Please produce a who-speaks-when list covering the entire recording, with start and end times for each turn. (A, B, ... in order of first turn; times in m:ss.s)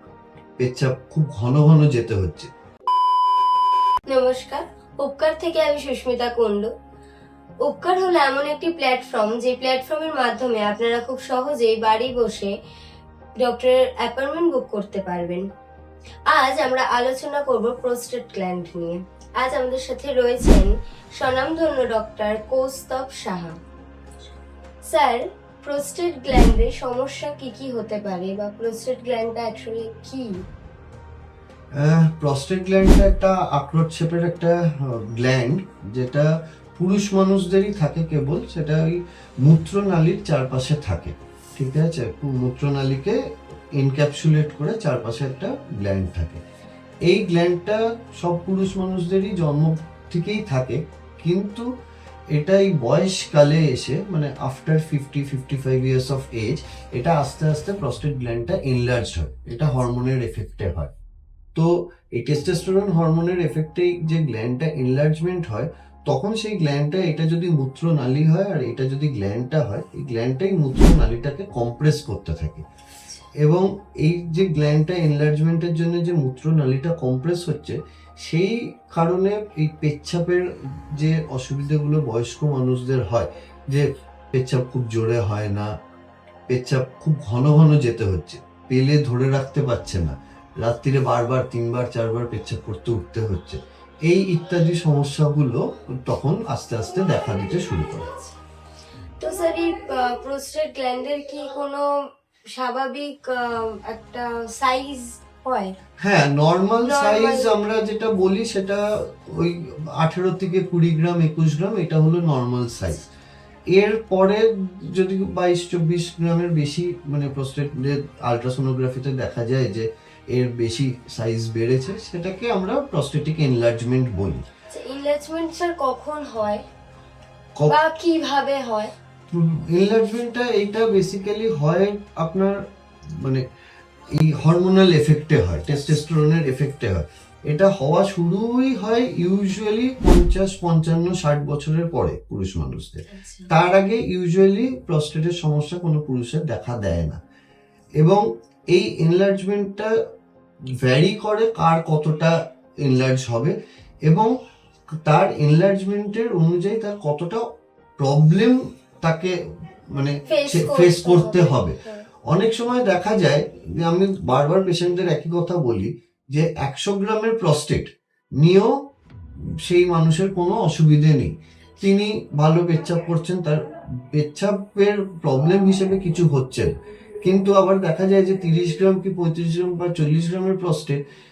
0:00.6-0:02.5 A
0:04.0-0:06.7 B
0:07.6-0:12.5 B
0:13.4-0:15.4 B
0:16.3-0:23.6 B
0:24.8-0:30.4 B
0:31.7-0:43.2 A
0:43.7-0:46.4 A
0:47.0-0:51.6 A
0:52.3-1:00.9 A
1:01.5-1:12.6 A
1:13.4-1:25.7 A
1:26.5-1:38.2 A
1:39.2-1:41.8 B
1:42.5-1:45.7 B
1:46.0-1:53.1 A
1:46.8-1:47.5 B
1:53.7-2:04.4 A
2:04.7-2:06.6 B
2:07.7-2:08.9 B
2:09.3-2:12.6 A
2:14.1-2:27.2 A
2:23.1-2:23.5 B
2:28.0-2:29.9 A
2:30.8-2:34.3 A
2:35.0-2:37.4 A
2:38.0-2:39.3 A
2:39.9-2:48.7 A
2:40.3-2:42.0 B
2:49.6-3:01.0 A